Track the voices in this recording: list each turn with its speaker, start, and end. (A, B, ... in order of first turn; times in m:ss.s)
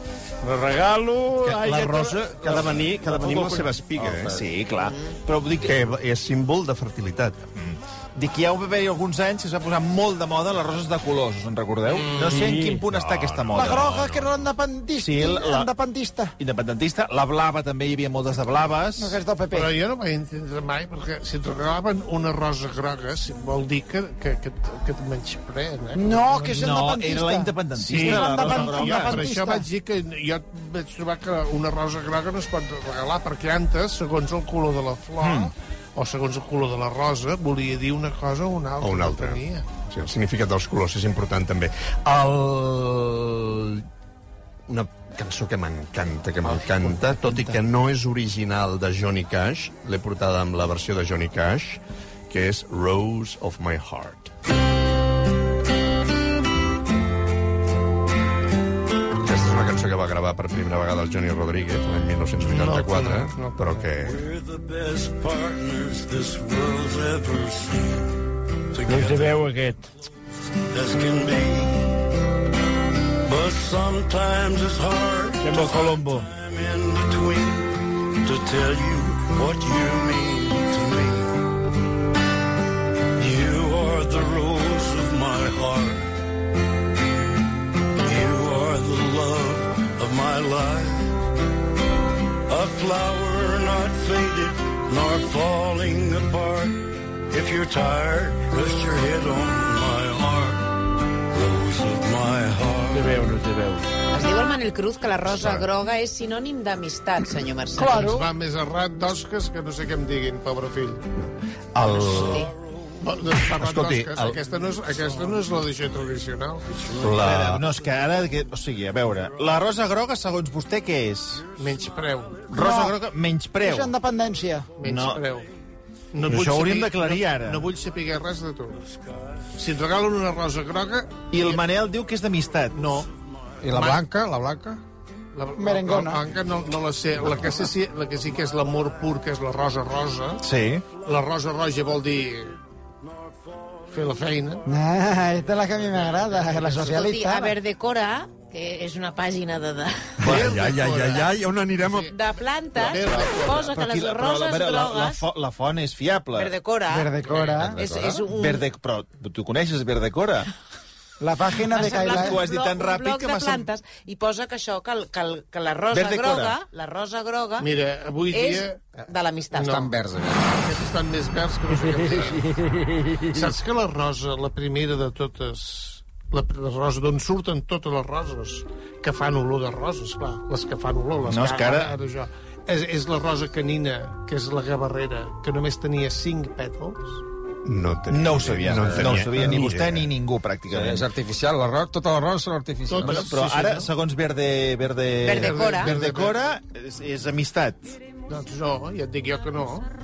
0:00.4-0:02.2 A
0:01.4-0:04.4 B
0:02.4-0:06.0 C
0:05.6-0:07.4 B
0:07.6-0:14.1 C
0:12.1-0:12.4 D
0:12.2-0:12.8 A
0:12.8-0:14.3 B
0:13.5-0:16.3 E
0:15.0-0:15.7 C
0:16.4-0:19.2 C
0:19.0-0:19.7 E
0:19.5-0:26.6 D
0:25.9-0:29.7 E
0:26.4-0:29.2 C
0:27.8-0:39.6 D
0:35.2-0:35.5 C
0:38.8-0:43.9 B
0:44.7-0:54.3 B
0:47.1-0:47.5 E
0:59.2-1:04.3 B
1:02.4-1:03.7 D
1:04.0-1:08.1 F
1:08.7-1:09.4 F
1:08.8-1:09.9 A
1:10.7-1:12.0 F
1:13.2-1:21.4 F
1:15.4-1:16.3 A
1:23.2-1:26.1 F
1:28.0-1:31.2 F
1:32.5-1:40.7 F
1:41.3-1:43.1 F
1:42.9-1:43.9 A
1:44.1-1:48.1 G
1:45.3-1:45.7 B
1:47.7-1:48.2 E
1:47.9-1:51.0 D
1:51.2-1:52.5 B
1:52.2-1:52.5 G
1:53.0-1:56.6 D
1:53.5-1:54.4 B
1:56.7-1:57.1 F
1:57.0-1:57.7 B
1:57.2-2:01.5 C
2:01.6-2:02.4 D
2:02.5-2:03.9 C
2:02.5-2:03.0 E
2:03.6-2:04.7 E
2:04.8-2:05.5 D
2:04.8-2:05.2 C
2:06.1-2:08.8 D
2:06.2-2:07.7 C
2:08.9-2:09.4 F
2:09.5-2:11.6 D
2:11.3-2:12.8 C
2:12.7-2:13.1 D
2:13.6-2:14.8 D
2:15.3-2:20.4 D
2:15.6-2:16.2 E
2:20.4-2:20.8 C
2:21.0-2:22.6 D
2:23.9-2:24.6 D
2:24.6-2:27.6 E
2:26.7-2:30.3 G
2:30.2-2:32.1 B
2:30.2-2:31.3 D
2:32.1-2:35.2 G
2:32.7-2:33.7 D
2:33.5-2:36.5 C
2:36.3-2:37.1 G
2:36.9-2:37.8 E
2:37.3-2:38.2 H
2:37.7-2:38.7 G
2:38.1-2:40.5 C
2:41.2-2:42.4 E
2:41.7-2:43.7 C
2:41.7-2:47.7 G
2:45.9-2:46.6 C
2:47.6-2:49.0 D
2:48.3-2:49.8 G
2:49.5-2:49.9 D
2:49.6-2:50.7 H
2:50.6-2:52.5 D
2:51.9-2:53.5 A
2:53.3-3:07.2 D
3:01.3-3:01.9 C
3:07.6-3:10.1 B
3:08.1-3:11.1 C
3:08.7-3:09.3 H
3:10.7-3:13.3 H
3:12.9-3:13.9 D
3:13.0-3:17.9 C
3:15.2-3:15.9 G
3:15.3-3:16.4 D
3:18.3-3:19.9 D